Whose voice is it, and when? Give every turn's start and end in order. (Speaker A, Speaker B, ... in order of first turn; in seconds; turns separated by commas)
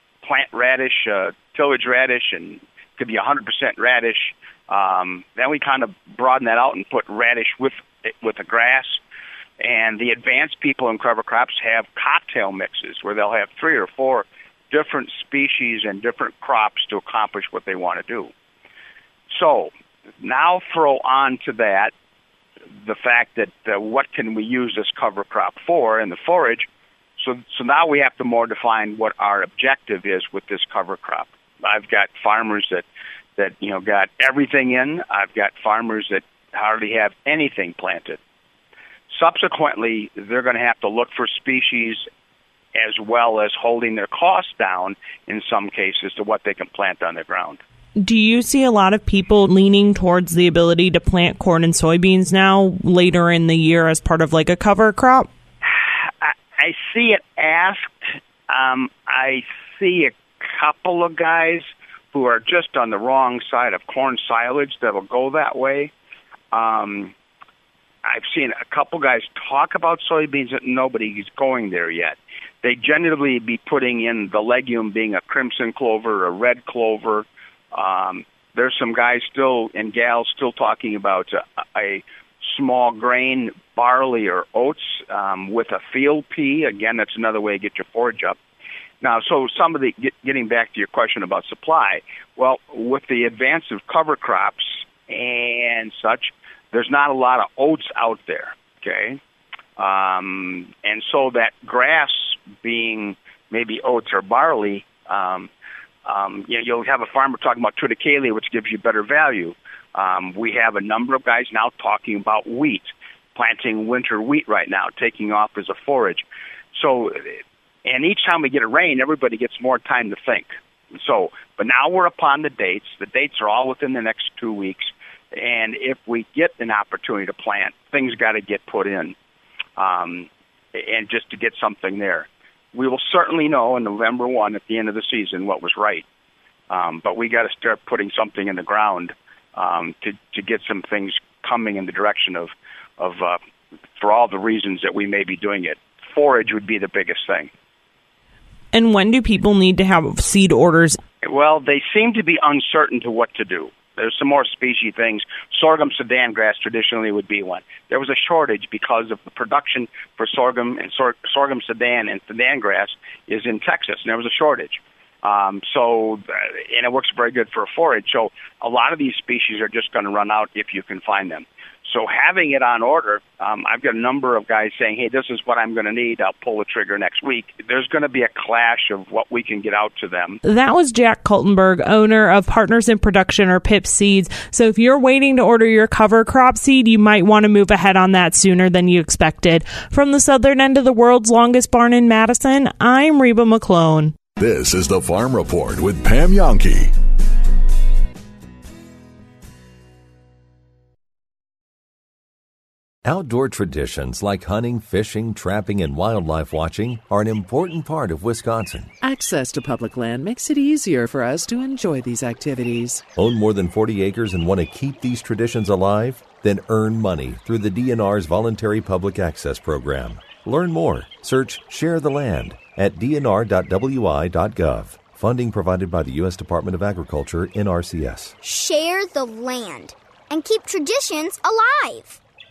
Speaker A: 0.2-9.0, Speaker A: 9.6-18.3, Speaker A: 19.3-21.9, Speaker A: 22.8-26.7, Speaker A: 27.2-32.9, Speaker A: 33.4-38.2, Speaker A: 39.1-42.0, Speaker A: 42.8-47.6, Speaker B: 48.0-55.3, Speaker A: 55.6-65.9, Speaker A: 66.5-67.1, Speaker A: 68.0-88.4, Speaker A: 89.0-99.2, Speaker A: 99.8-105.5, Speaker A: 106.0-129.2, Speaker A: 129.8-136.1, Speaker A: 136.7-143.4, Speaker A: 144.0-147.5, Speaker B: 148.7-151.0, Speaker A: 151.2-180.4, Speaker B: 180.4-194.2, Speaker C: 194.4-196.9, Speaker D: 203.1-208.9, Speaker E: 209.0-213.0, Speaker D: 213.2-228.4, Speaker F: 228.4-232.2